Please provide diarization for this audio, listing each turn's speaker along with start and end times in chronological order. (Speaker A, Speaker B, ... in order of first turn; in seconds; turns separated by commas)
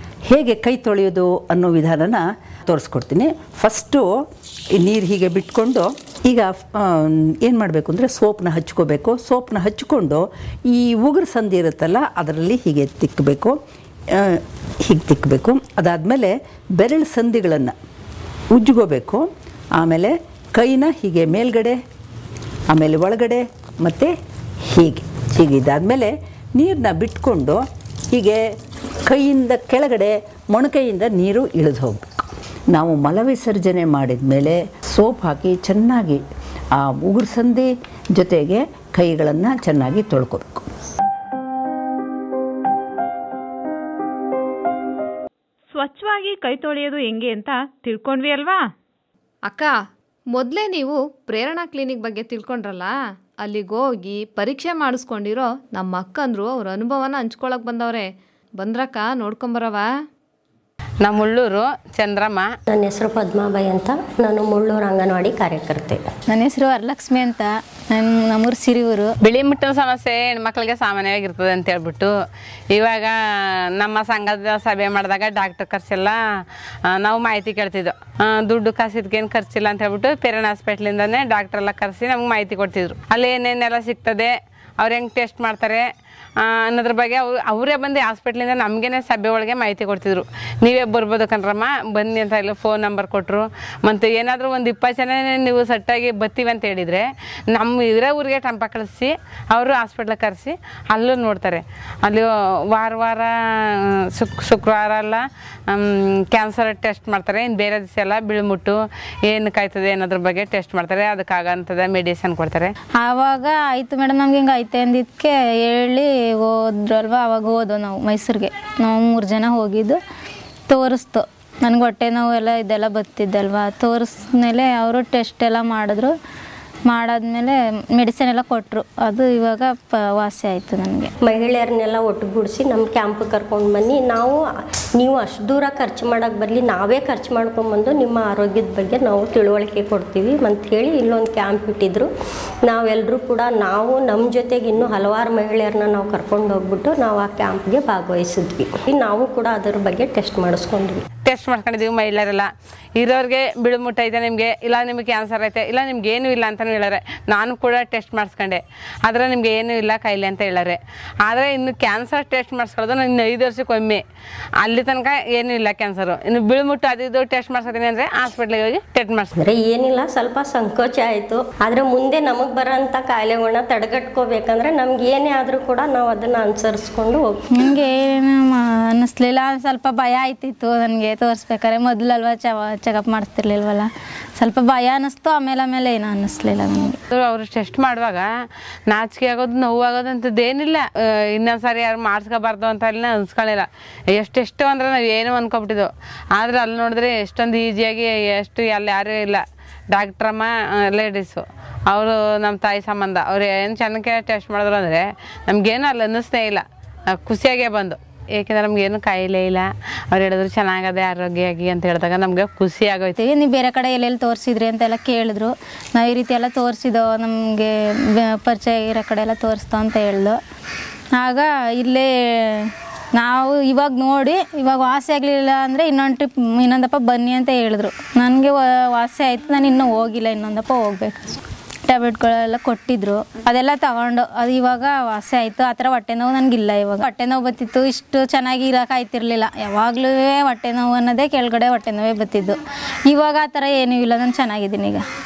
Speaker A: 0.2-4.2, Speaker A: 4.8-13.6, Speaker A: 14.2-17.7, Speaker A: 18.5-21.8, Speaker A: 22.7-24.1, Speaker A: 24.7-28.4, Speaker A: 29.1-36.2, Speaker A: 36.8-40.6, Speaker B: 45.7-48.6, Speaker C: 49.5-49.7, Speaker C: 50.3-58.1, Speaker C: 58.6-59.9, Speaker D: 61.0-62.5, Speaker E: 62.7-66.0, Speaker F: 66.3-69.1, Speaker D: 69.2-72.1, Speaker D: 72.7-73.1, Speaker D: 73.7-76.2, Speaker D: 76.9-85.9, Speaker D: 86.4-103.3, Speaker D: 104.1-112.7, Speaker F: 113.0-120.0, Speaker F: 120.7-126.1, Speaker F: 126.9-131.1, Speaker E: 131.2-134.4, Speaker E: 135.0-142.1, Speaker E: 142.7-151.0, Speaker D: 151.2-164.0, Speaker D: 164.6-169.3, Speaker E: 169.4-177.4, Speaker F: 177.5-187.0, Speaker D: 187.1-188.3, Speaker D: 188.9-206.6, Speaker D: 207.2-213.1, Speaker F: 213.2-220.4, Speaker F: 221.1-245.0